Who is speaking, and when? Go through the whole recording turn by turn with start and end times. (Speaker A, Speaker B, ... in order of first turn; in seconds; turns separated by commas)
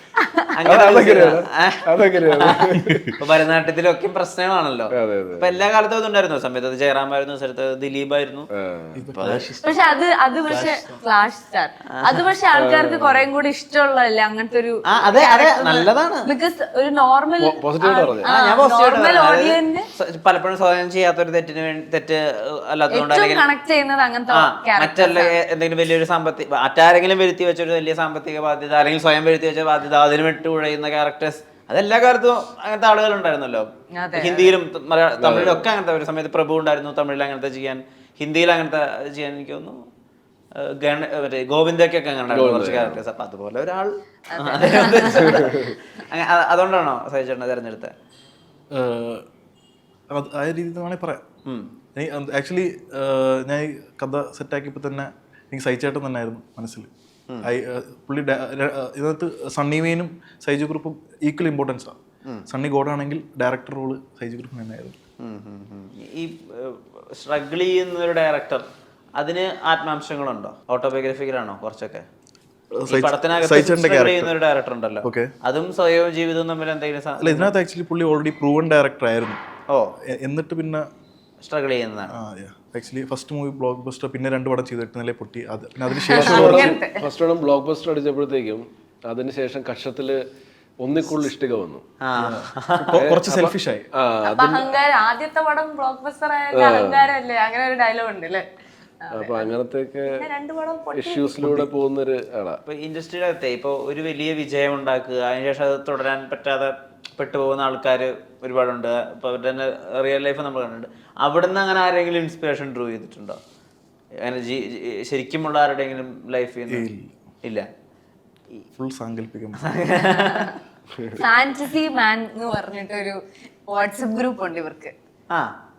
Speaker A: 0.6-8.5, Speaker B: 0.6-3.1, Speaker C: 2.8-3.1, Speaker B: 4.9-5.6, Speaker B: 8.6-9.0, Speaker C: 8.9-9.7, Speaker A: 9.1-9.4, Speaker D: 9.6-19.9, Speaker C: 10.5-11.0, Speaker A: 12.0-12.3, Speaker B: 12.5-13.2, Speaker A: 14.9-16.3, Speaker B: 17.4-18.3, Speaker A: 18.2-23.4, Speaker D: 22.9-25.3, Speaker A: 24.3-39.8, Speaker D: 34.0-34.5, Speaker B: 35.2-35.6, Speaker A: 40.6-47.9, Speaker B: 42.3-43.0, Speaker D: 44.3-45.5, Speaker B: 45.2-45.7, Speaker C: 48.7-49.2, Speaker C: 50.1-51.2, Speaker C: 52.0-56.9, Speaker C: 57.4-62.0, Speaker C: 62.5-65.0, Speaker A: 65.2-68.7, Speaker A: 69.2-72.0, Speaker C: 72.7-74.3, Speaker A: 72.9-77.5, Speaker C: 75.0-75.3, Speaker C: 77.2-79.4, Speaker C: 80.1-80.8, Speaker A: 81.4-82.2, Speaker C: 82.1-86.8, Speaker D: 85.9-87.1, Speaker B: 86.1-90.2, Speaker B: 90.8-91.8, Speaker A: 92.0-93.1, Speaker C: 92.2-93.8, Speaker B: 93.0-94.7, Speaker D: 94.2-98.5, Speaker B: 96.5-97.1, Speaker D: 99.0-99.5, Speaker B: 99.1-100.2, Speaker D: 100.0-101.5, Speaker B: 100.9-102.6, Speaker C: 101.4-101.7, Speaker A: 102.7-113.4, Speaker A: 114.2-116.9, Speaker C: 116.7-117.1, Speaker C: 118.8-119.6, Speaker A: 119.6-120.6, Speaker D: 120.0-120.5, Speaker D: 121.1-124.9